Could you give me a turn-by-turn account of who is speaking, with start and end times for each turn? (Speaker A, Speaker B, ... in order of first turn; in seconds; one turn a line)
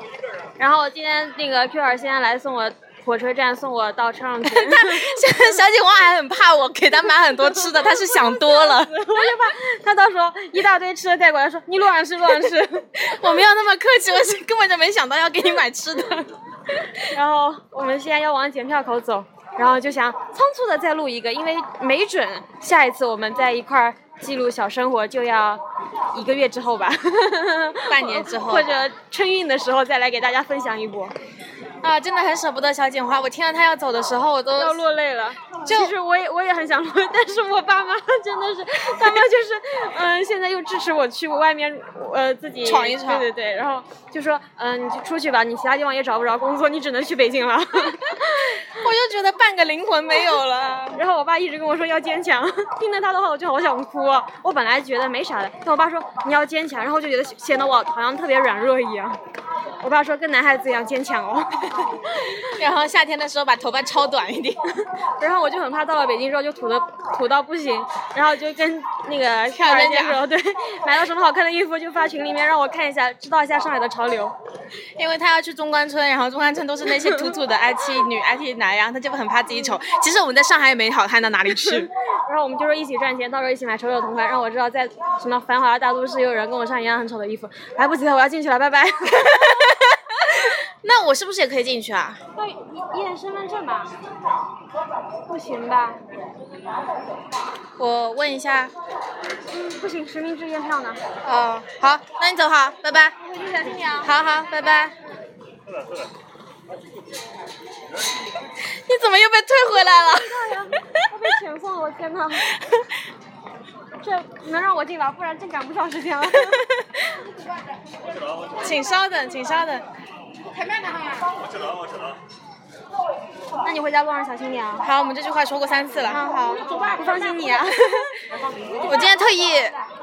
Speaker A: 0.6-5.2
Speaker B: 4.4-9.2
Speaker A: 7.5-13.0
Speaker B: 12.5-16.3
Speaker A: 16.9-25.6
Speaker A: 26.1-31.1
Speaker B: 27.9-28.9
Speaker B: 31.8-34.8
Speaker A: 34.5-48.7
Speaker B: 35.6-35.9
Speaker B: 42.6-43.3
Speaker B: 48.2-51.0
Speaker A: 50.9-59.2
Speaker A: 59.8-62.1
Speaker B: 62.2-64.6
Speaker A: 65.2-74.3
Speaker B: 69.5-70.2
Speaker B: 75.0-81.9
Speaker A: 82.0-89.5
Speaker B: 89.2-92.2
Speaker A: 92.3-93.9
Speaker A: 95.3-96.0
Speaker B: 97.8-98.7
Speaker A: 99.5-101.0
Speaker B: 101.2-103.1
Speaker A: 103.2-104.1
Speaker B: 104.0-105.0
Speaker B: 108.6-110.9
Speaker A: 110.1-112.5
Speaker A: 114.0-116.7
Speaker B: 116.4-116.8
Speaker B: 118.6-119.8
Speaker A: 123.6-124.9
Speaker B: 124.8-126.2
Speaker A: 126.0-128.2
Speaker B: 128.8-129.7